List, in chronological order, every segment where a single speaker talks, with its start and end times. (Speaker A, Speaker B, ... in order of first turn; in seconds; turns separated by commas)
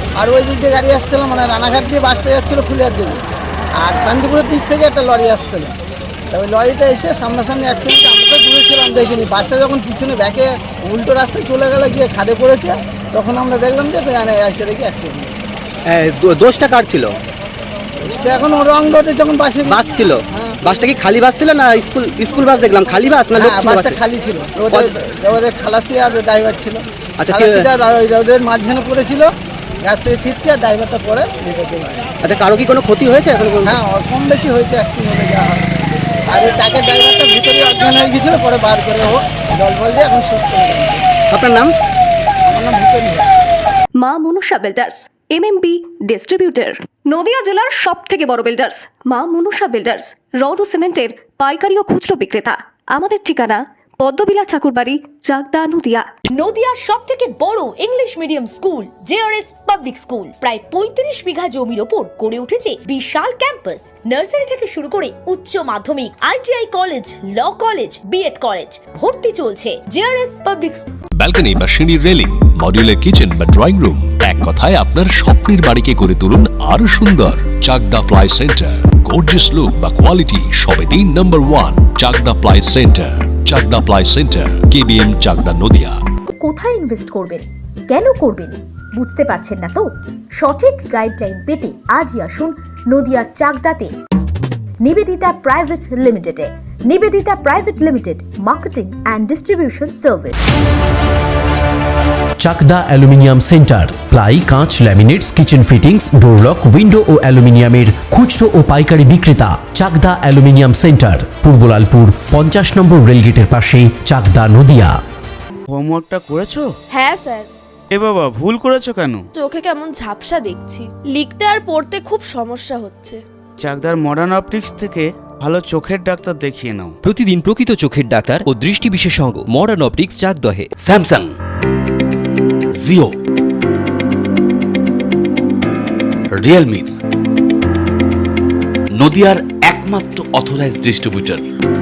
Speaker A: 0.2-3.2, Speaker A: 3.8-5.7, Speaker A: 6.3-15.4, Speaker B: 15.9-17.1, Speaker A: 18.0-19.8, Speaker B: 19.6-24.0, Speaker A: 23.4-29.3, Speaker B: 27.2-27.7, Speaker A: 29.8-32.0, Speaker B: 32.2-33.8, Speaker A: 33.6-35.6, Speaker A: 36.3-41.0, Speaker B: 41.3-41.7, Speaker A: 42.5-43.3, Speaker C: 44.0-56.1, Speaker D: 56.3-70.9, Speaker E: 71.2-86.0, Speaker F: 86.4-93.9, Speaker F: 94.8-100.4, Speaker G: 102.4-114.9, Speaker H: 115.7-116.7, Speaker I: 116.9-117.5, Speaker H: 117.9-119.3, Speaker I: 119.3-123.2, Speaker H: 123.6-127.0, Speaker J: 127.0-130.7, Speaker K: 130.8-131.3, Speaker K: 132.8-133.1, Speaker K: 136.3-137.0, Speaker K: 139.0-141.4